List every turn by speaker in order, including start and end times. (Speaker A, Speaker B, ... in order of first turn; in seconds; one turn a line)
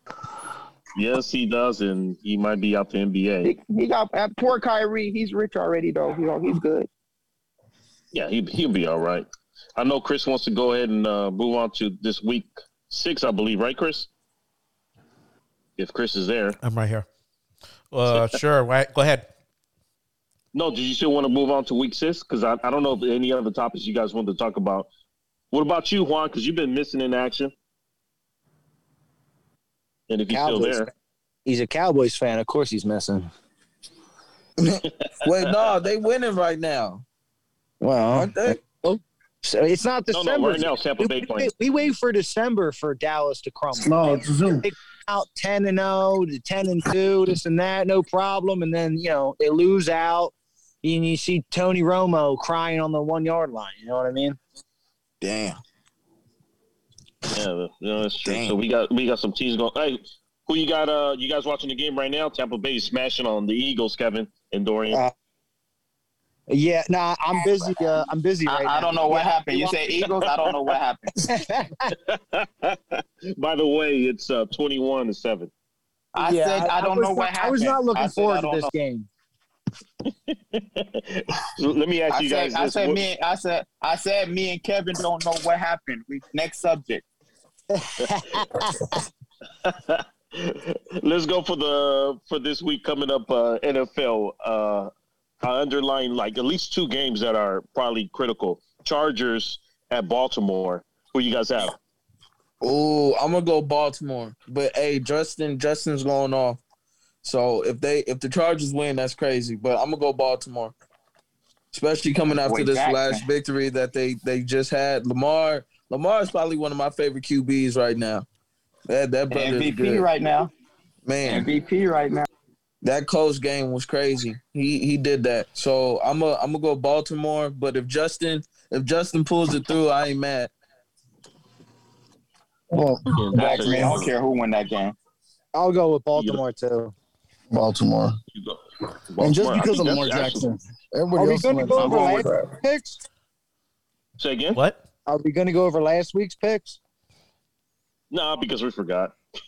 Speaker A: 0.9-3.5
Speaker B: 3.4-6.9
Speaker A: 8.1-9.2
Speaker A: 9.8-14.1
Speaker A: 15.8-16.6
Speaker C: 16.6-17.1
Speaker C: 17.9-19.2
Speaker A: 20.5-24.9
Speaker A: 25.5-27.5
Speaker A: 30.1-30.9
Speaker D: 30.3-30.9
Speaker D: 31.4-33.3
Speaker E: 34.6-37.0
Speaker D: 37.8-54.4
Speaker E: 38.1-38.6
Speaker A: 40.1-41.5
Speaker F: 43.7-44.7
Speaker E: 55.2-55.6
Speaker A: 57.3-65.0
Speaker E: 58.2-58.6
Speaker D: 66.5-69.8
Speaker B: 68.5-71.2
Speaker D: 71.2-71.9
Speaker A: 72.0-75.5
Speaker B: 76.1-78.7
Speaker D: 76.2-79.1
Speaker A: 80.0-83.0
Speaker B: 82.1-87.0
Speaker D: 87.7-89.0
Speaker A: 89.6-94.9
Speaker A: 95.4-101.7
Speaker E: 102.6-106.6
Speaker E: 107.2-110.7
Speaker E: 111.7-118.2
Speaker B: 112.3-113.2
Speaker E: 118.9-120.1
Speaker B: 119.3-120.5
Speaker E: 121.0-121.5
Speaker B: 121.2-122.3
Speaker E: 122.8-130.5
Speaker F: 132.7-134.0
Speaker A: 133.1-134.1
Speaker B: 133.3-134.9
Speaker D: 135.5-136.9
Speaker A: 136.2-136.4
Speaker F: 137.5-138.2
Speaker A: 139.1-140.4
Speaker F: 139.2-142.3
Speaker D: 141.2-143.0
Speaker B: 141.8-142.4
Speaker A: 144.2-144.6
Speaker C: 144.5-144.8
Speaker D: 145.1-146.8
Speaker A: 148.1-149.1